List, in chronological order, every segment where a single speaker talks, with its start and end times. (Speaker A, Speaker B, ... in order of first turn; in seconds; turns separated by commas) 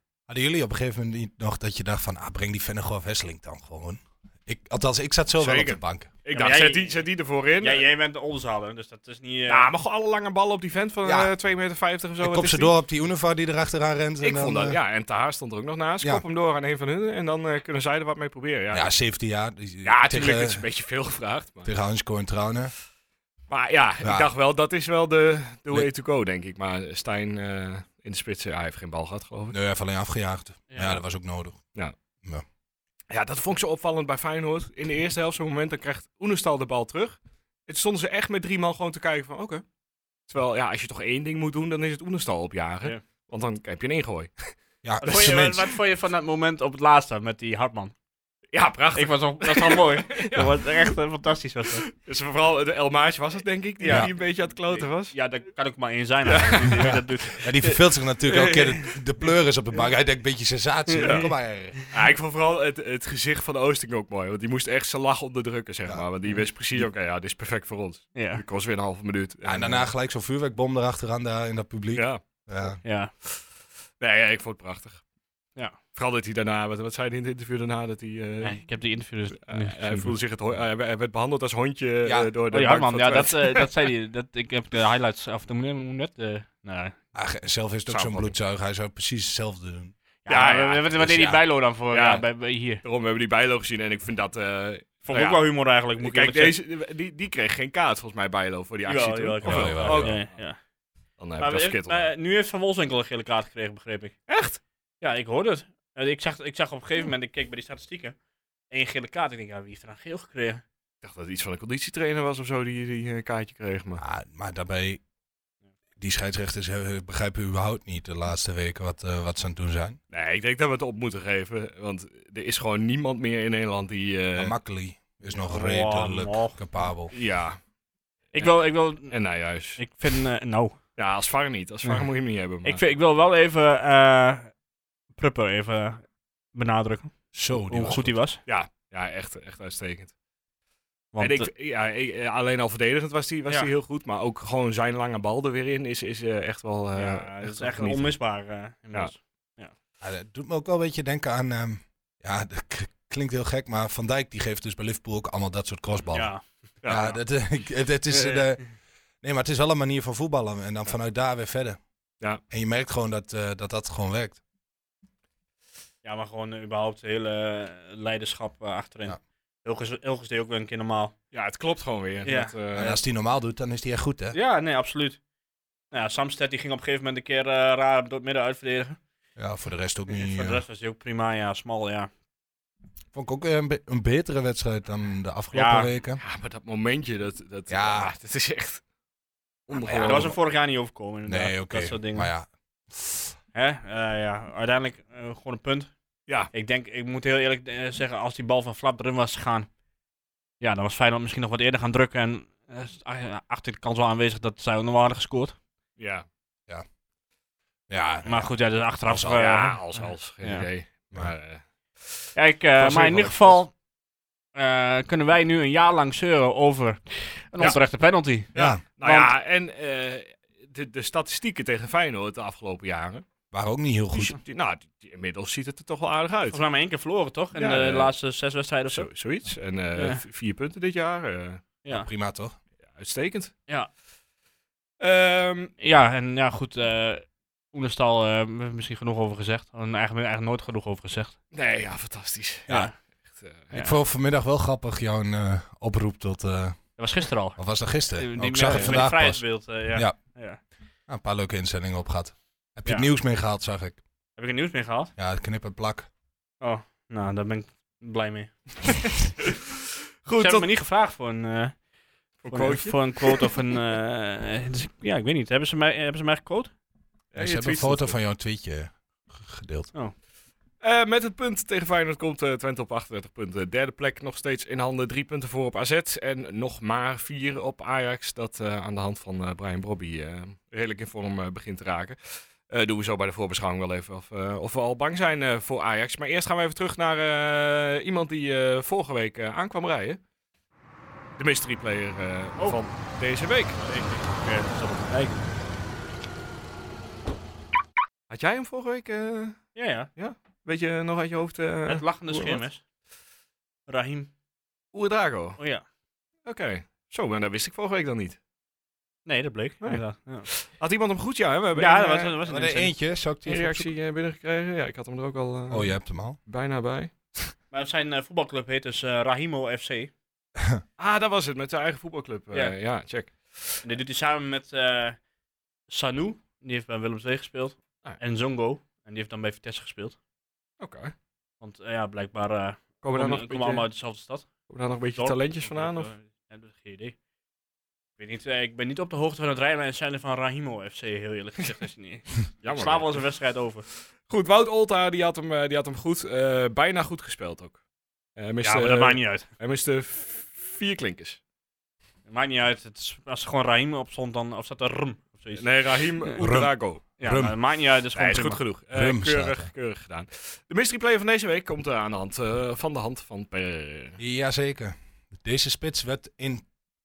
Speaker A: 0.3-6.1, Speaker B: 5.4-7.8, Speaker C: 6.3-7.0, Speaker C: 7.6-9.7, Speaker B: 9.5-12.7, Speaker A: 11.1-11.3, Speaker A: 12.2-14.8, Speaker B: 14.2-18.9, Speaker A: 18.7-20.6, Speaker B: 19.8-21.7, Speaker A: 21.6-22.7, Speaker B: 23.5-29.6, Speaker A: 24.0-24.3, Speaker A: 29.5-31.6, Speaker C: 30.7-31.0, Speaker B: 33.1-39.6, Speaker B: 40.3-45.5, Speaker A: 44.8-45.7, Speaker C: 45.0-47.9, Speaker B: 48.5-50.5, Speaker C: 49.0-51.9, Speaker B: 51.9-55.1, Speaker C: 53.8-59.0, Speaker B: 56.2-56.9, Speaker A: 56.7-61.8, Speaker C: 60.9-61.2, Speaker B: 61.0-61.3, Speaker B: 61.9-69.9, Speaker C: 68.2-68.4, Speaker A: 69.4-72.8, Speaker B: 71.9-72.8, Speaker C: 72.8-73.1, Speaker B: 74.0-75.0, Speaker B: 75.9-78.6, Speaker C: 78.4-80.2, Speaker B: 79.4-83.7, Speaker A: 82.0-82.3, Speaker C: 82.5-87.0, Speaker A: 87.1-89.9, Speaker B: 87.9-88.3, Speaker C: 90.3-92.8, Speaker B: 90.3-91.0, Speaker A: 91.0-91.4, Speaker B: 91.9-92.2, Speaker B: 92.8-95.4, Speaker C: 95.1-96.5, Speaker B: 96.0-100.3, Speaker C: 98.9-100.6, Speaker A: 99.4-100.2, Speaker B: 101.2-102.1, Speaker C: 101.4-104.2, Speaker B: 104.3-104.6, Speaker C: 105.0-108.2, Speaker C: 108.7-110.6, Speaker B: 111.0-114.0, Speaker A: 114.0-115.0, Speaker A: 116.0-120.0, Speaker B: 120.1-124.5, Speaker A: 124.4-127.1, Speaker C: 125.4-126.6, Speaker B: 127.1-127.6, Speaker B: 128.3-129.8, Speaker C: 128.3-129.2, Speaker C: 129.8-130.8, Speaker B: 131.0-132.8, Speaker C: 132.6-134.5, Speaker C: 135.2-138.4, Speaker A: 137.3-138.2, Speaker B: 138.5-140.1, Speaker C: 141.1-141.5, Speaker B: 141.2-148.2, Speaker C: 146.9-149.7, Speaker A: 150.0-161.8, Speaker C: 156.1-157.2, Speaker C: 158.1-158.6, Speaker A: 162.5-164.4, Speaker C: 166.0-171.2, Speaker B: 171.3-173.0, Speaker C: 172.2-172.5, Speaker A: 172.8-174.4, Speaker C: 174.3-175.2, Speaker C: 175.9-179.0, Speaker A: 179.4-180.6, Speaker C: 180.1-182.1, Speaker A: 183.1-186.2, Speaker C: 185.5-185.9, Speaker B: 186.2-188.8, Speaker A: 187.7-188.1, Speaker B: 189.7-190.4, Speaker A: 189.8-190.3, Speaker C: 189.9-192.3, Speaker A: 191.3-193.3, Speaker C: 193.5-195.9, Speaker C: 196.5-199.7, Speaker C: 200.6-205.6, Speaker B: 206.0-206.3, Speaker A: 207.9-208.5, Speaker C: 208.2-210.7, Speaker A: 209.1-209.4, Speaker B: 209.3-213.6, Speaker C: 212.4-213.7, Speaker C: 214.6-219.3, Speaker B: 218.5-223.2, Speaker A: 218.6-218.8, Speaker A: 223.5-224.4, Speaker B: 224.1-226.6, Speaker C: 226.5-229.1, Speaker B: 227.6-228.1, Speaker B: 228.9-231.6, Speaker C: 229.9-230.2, Speaker C: 231.8-232.1, Speaker A: 231.9-232.6, Speaker B: 232.9-233.6, Speaker B: 235.0-235.7, Speaker C: 235.8-241.4, Speaker B: 241.5-243.9, Speaker C: 242.7-242.9, Speaker A: 243.7-247.0, Speaker C: 247.0-250.6, Speaker A: 247.6-250.2, Speaker B: 248.6-249.0, Speaker A: 251.1-254.0, Speaker C: 254.4-255.1, Speaker A: 255.2-256.1, Speaker C: 256.6-259.0, Speaker B: 260.2-260.7, Speaker C: 260.4-261.8, Speaker B: 262.4-263.5, Speaker C: 262.4-266.7, Speaker B: 267.3-268.2, Speaker A: 267.4-269.9, Speaker B: 270.8-290.2, Speaker B: 291.4-293.8, Speaker C: 293.8-295.5, Speaker B: 298.3-302.6, Speaker C: 299.8-300.1, Speaker C: 301.9-302.8, Speaker C: 303.9-304.3, Speaker B: 304.9-305.6, Speaker C: 305.6-305.8, Speaker B: 306.4-308.4, Speaker C: 309.3-310.6, Speaker B: 309.8-312.3, Speaker C: 311.7-312.9, Speaker A: 312.4-313.9, Speaker B: 313.5-317.6, Speaker A: 315.7-316.4, Speaker C: 317.7-320.1, Speaker B: 321.0-323.8, Speaker C: 323.8-325.2, Speaker C: 325.9-330.2, Speaker B: 330.8-331.1, Speaker C: 331.6-334.5, Speaker B: 333.0-333.9, Speaker B: 334.7-336.1, Speaker C: 335.2-337.2, Speaker C: 338.2-343.9, Speaker B: 342.6-343.2, Speaker B: 344.1-347.8, Speaker B: 348.4-351.4, Speaker C: 348.6-349.5, Speaker C: 352.3-356.4, Speaker B: 355.6-357.0, Speaker A: 356.4-357.6, Speaker C: 357.2-358.6, Speaker B: 358.1-364.2, Speaker A: 358.9-359.7, Speaker A: 364.2-366.7